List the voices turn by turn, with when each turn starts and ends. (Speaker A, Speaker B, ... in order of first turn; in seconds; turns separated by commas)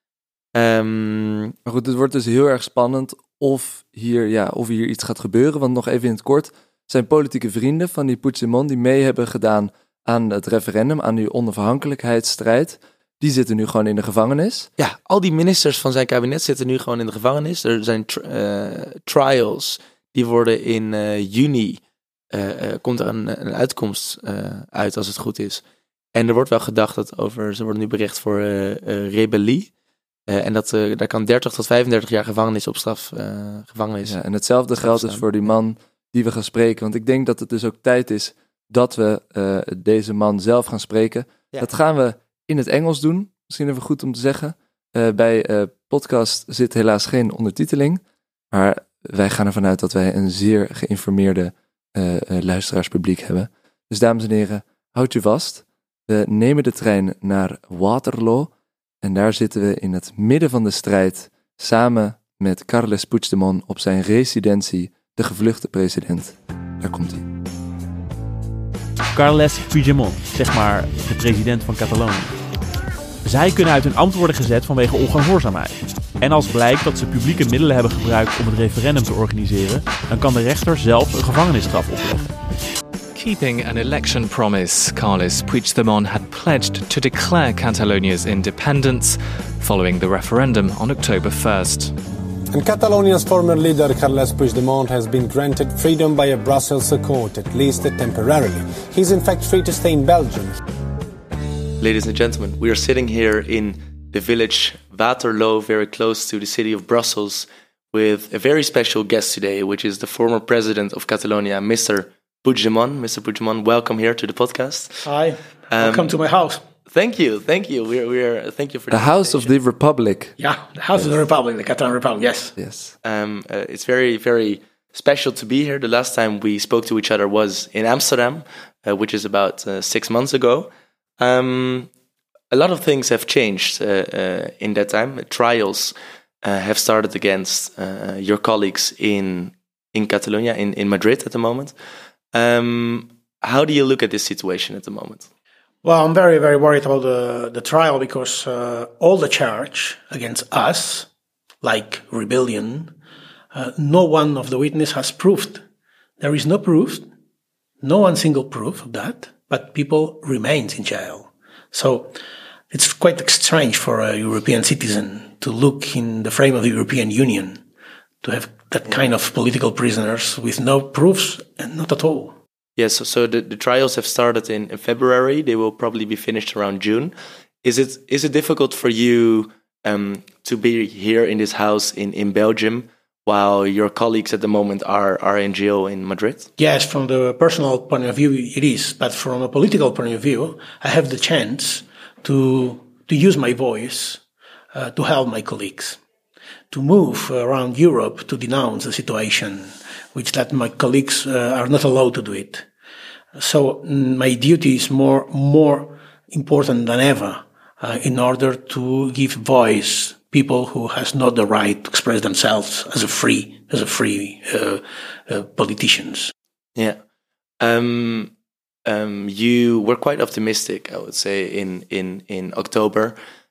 Speaker A: 0.6-1.5, Speaker B: 1.6-14.7, Speaker A: 14.8-21.8, Speaker A: 22.3-25.6, Speaker A: 26.1-29.7, Speaker A: 30.3-34.2, Speaker B: 34.0-58.5, Speaker A: 34.8-35.2, Speaker B: 59.0-67.2, Speaker C: 69.1-72.3, Speaker C: 73.2-82.3, Speaker D: 83.1-91.9, Speaker E: 92.5-100.6, Speaker A: 101.8-115.1, Speaker F: 115.0-116.6, Speaker A: 115.7-116.1, Speaker A: 116.9-119.5, Speaker B: 118.9-120.3, Speaker F: 120.4-122.5, Speaker B: 122.6-122.9, Speaker A: 123.0-131.9, Speaker A: 132.5-141.7, Speaker A: 142.3-145.3, Speaker F: 145.8-151.1, Speaker F: 151.6-152.9, Speaker F: 153.5-155.6, Speaker F: 156.2-157.0, Speaker F: 157.8-162.2, Speaker F: 162.7-167.6, Speaker F: 168.2-172.3, Speaker A: 172.8-177.1, Speaker A: 177.6-186.5, Speaker F: 186.6-194.2, Speaker F: 194.7-196.0, Speaker F: 196.7-202.7, Speaker F: 203.3-216.3, Speaker A: 217.6-218.3, Speaker A: 218.8-223.2